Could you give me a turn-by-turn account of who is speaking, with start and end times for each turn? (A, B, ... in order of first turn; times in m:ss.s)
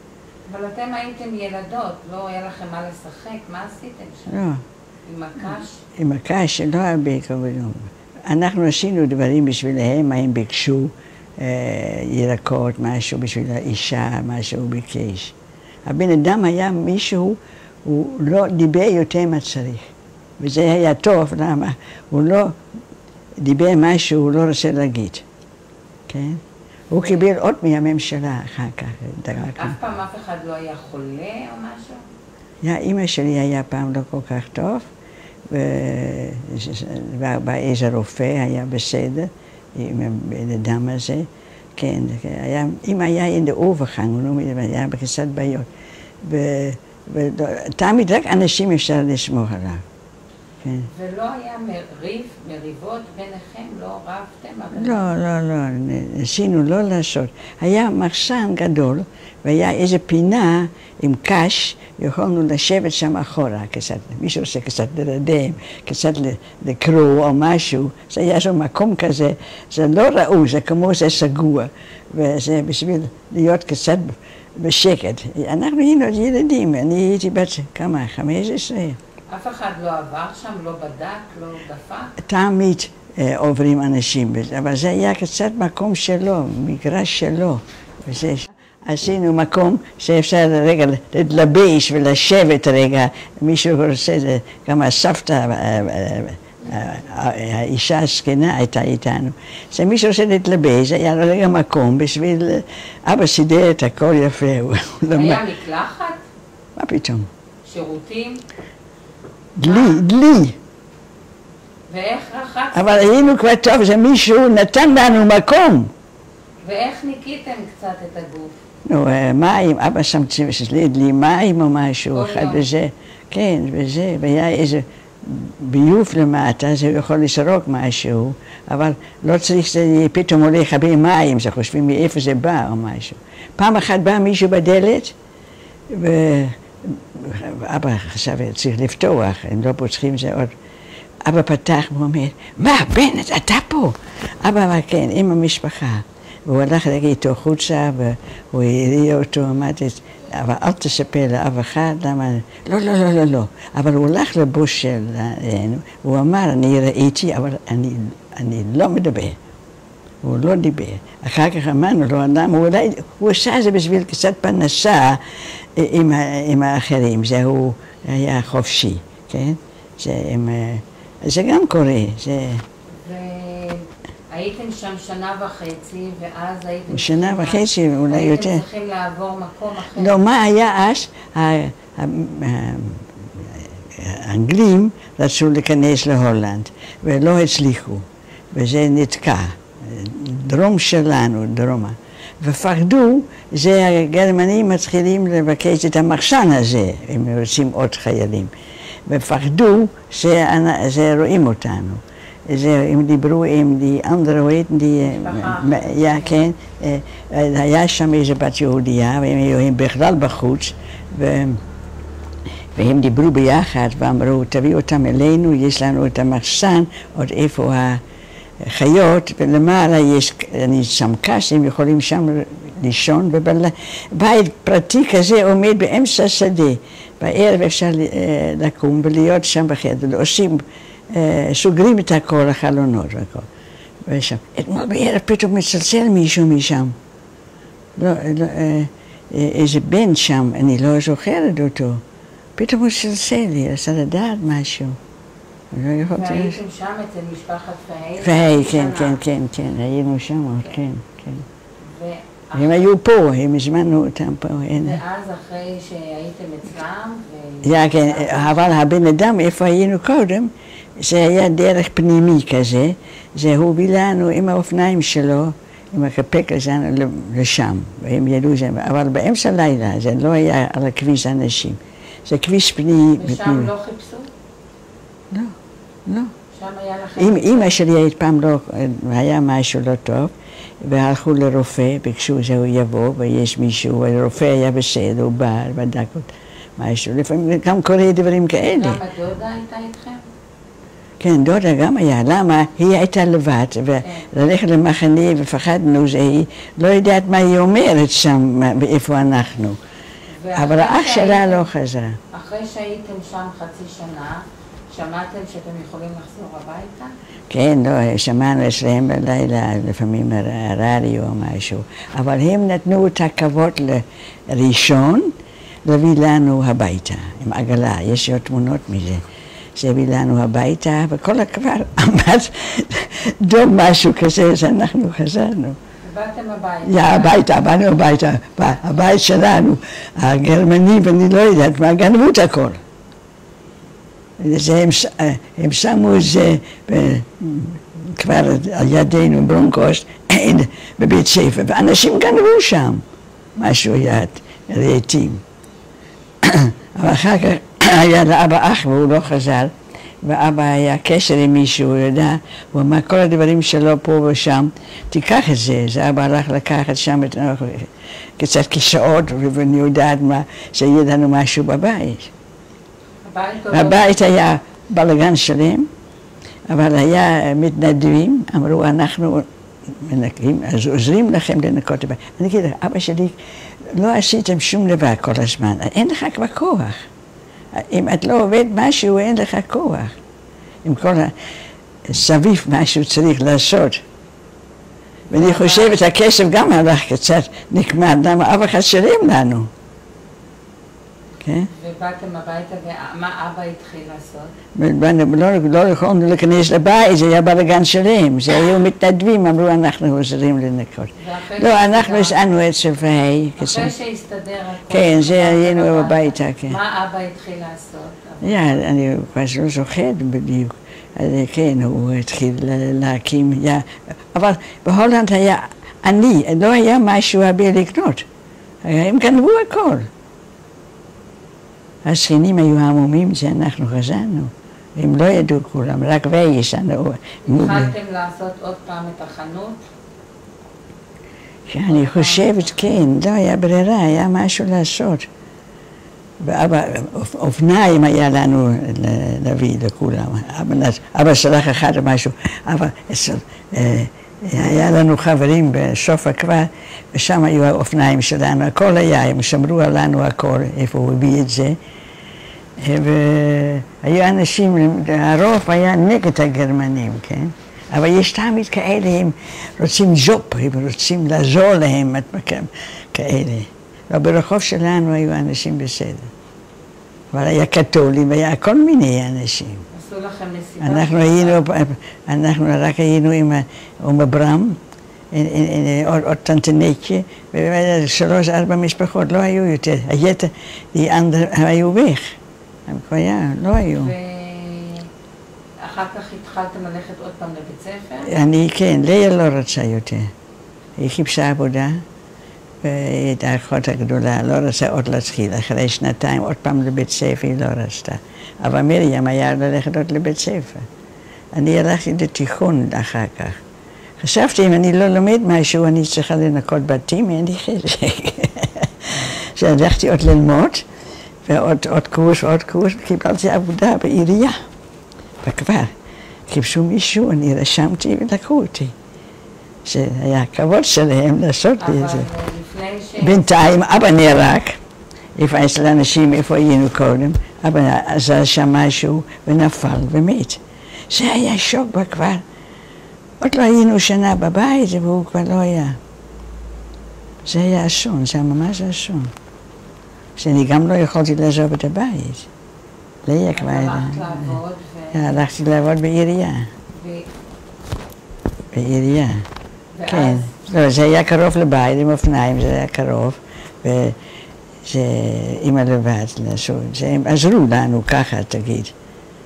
0:00.5-0:04.5 A
0:04.3-0:04.6 B
0:05.1-0:05.8 A
0:06.0-0:22.6 B
0:23.4-0:25.3 B
0:26.1-0:29.8 B
0:29.6-0:32.0 A
0:32.6-0:34.9 B
0:35.5-0:45.7 B
0:46.2-0:49.8 B
0:50.6-0:50.9 B
0:50.8-0:55.1 A
0:54.7-1:19.0 B
1:19.3-1:22.2 A
1:22.2-1:45.4 B
1:45.1-1:46.2 A
1:46.8-1:47.3 B
1:47.6-1:48.4 A
1:49.6-1:50.6 B
1:49.7-1:50.0 A
1:51.9-1:53.4 A
1:52.7-1:55.9 B
1:56.6-1:58.6 A
1:58.9-2:15.2 B
2:02.1-2:02.7 A
2:15.9-2:20.5 B
2:21.2-2:39.4 B
2:40.2-2:52.6 B
2:53.0-3:00.2 A
2:56.9-2:58.6 B
3:00.0-3:18.5 B
3:19.1-3:31.6 B
3:25.0-3:26.3 A
3:32.8-3:38.0 B
3:38.6-3:53.5 B
3:54.1-3:57.0 B
3:58.0-4:02.0 B
4:02.6-4:05.0 B
4:05.7-4:06.6 B
4:06.1-4:09.2 A
4:08.2-4:11.4 B
4:11.8-4:12.9 A
4:12.5-4:15.0 B
4:14.7-4:18.7 A
4:17.6-4:33.7 B
4:33.2-4:34.3 A
4:35.3-4:36.3 B
4:36.5-4:37.8 A
4:37.2-4:49.0 B
4:48.7-4:50.2 A
4:51.2-4:59.8 B
5:00.4-5:01.7 A
5:00.6-5:02.2 B
5:02.3-5:07.1 A
5:07.5-5:25.8 B
5:26.0-5:27.4 A
5:26.9-5:32.8 B
5:34.4-5:43.0 B
5:43.6-5:45.4 B
5:46.4-6:02.3 B
6:03.2-6:04.2 A
6:03.7-6:05.9 B
6:06.7-6:13.4 B
6:13.9-6:17.0 B
6:17.7-6:20.2 B
6:20.8-6:21.3 B
6:22.0-6:24.0 B
6:25.3-6:26.1 A
6:25.3-6:29.7 B
6:31.4-6:31.7 B
6:31.7-6:34.5 A
6:34.8-6:43.9 B
6:41.2-6:42.4 A
6:43.6-6:48.8 A
6:44.9-6:46.8 B
6:48.4-6:58.3 B
6:58.8-7:00.1 B
7:02.0-7:07.9 B
7:07.4-7:09.8 A
7:11.7-7:15.3 B
7:11.9-7:12.7 A
7:16.4-7:31.8 B
7:32.8-7:46.3 B
7:47.3-7:49.8 B
7:49.9-7:51.6 A
7:50.8-7:54.8 B
7:55.3-8:04.1 B
8:04.0-8:05.1 A
8:05.8-8:08.3 A
8:08.2-8:10.3 B
8:11.0-8:12.0 B
8:12.8-8:20.9 B
8:21.5-8:23.6 B
8:24.2-8:30.9 B
8:31.4-8:34.6 B
8:35.4-8:35.9 B
8:36.5-8:38.9 B
8:39.8-8:42.3 B
8:41.8-8:43.5 A
8:43.2-8:44.8 B
8:45.4-8:52.4 B
8:53.4-8:56.0 B
8:57.4-8:59.3 B
9:00.4-9:02.5 B
9:03.3-9:04.6 B
9:03.5-9:05.3 A
9:05.1-9:06.7 B
9:06.9-9:07.3 A
9:08.7-9:09.5 B
9:10.0-9:10.5 A
9:10.1-9:14.2 B
9:14.8-9:18.9 B